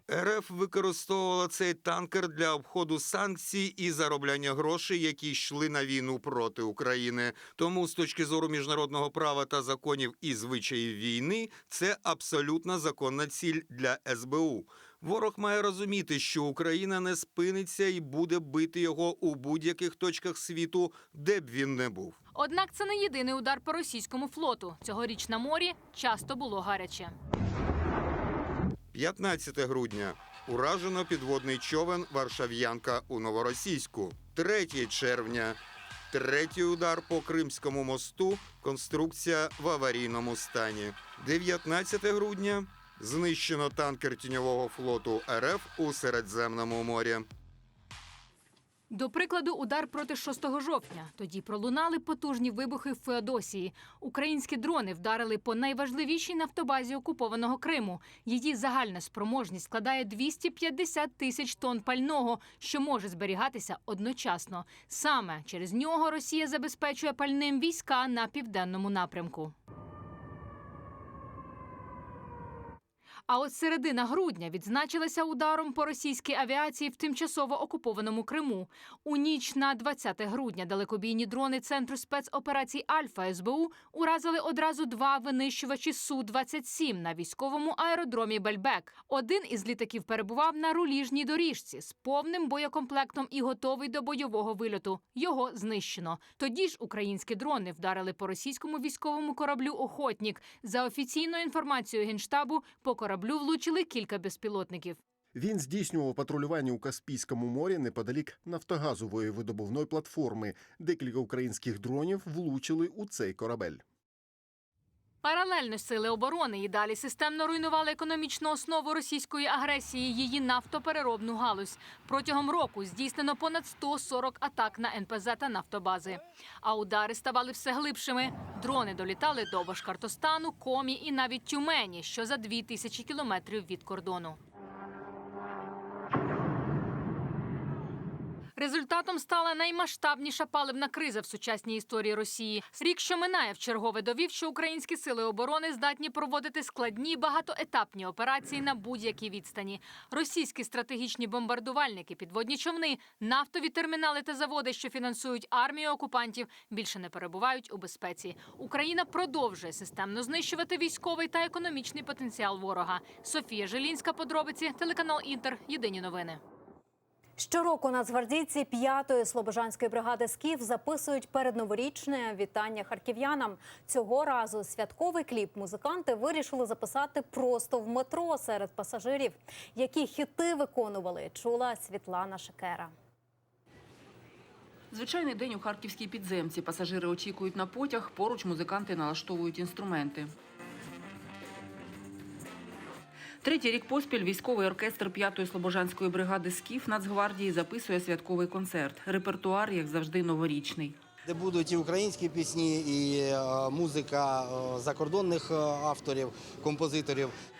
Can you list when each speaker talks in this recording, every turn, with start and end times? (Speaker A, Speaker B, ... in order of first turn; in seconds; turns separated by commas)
Speaker A: 0.1-22.1, Speaker B: 22.3-27.1, Speaker A: 28.9-35.6, Speaker A: 36.1-47.2, Speaker B: 48.9-69.5, Speaker B: 73.3-105.0, Speaker C: 105.3-113.8, Speaker B: 115.2-134.4, Speaker B: 138.6-166.4, Speaker D: 167.4-182.9, Speaker E: 184.9-190.3, Speaker E: 193.4-201.0, Speaker F: 201.2-207.3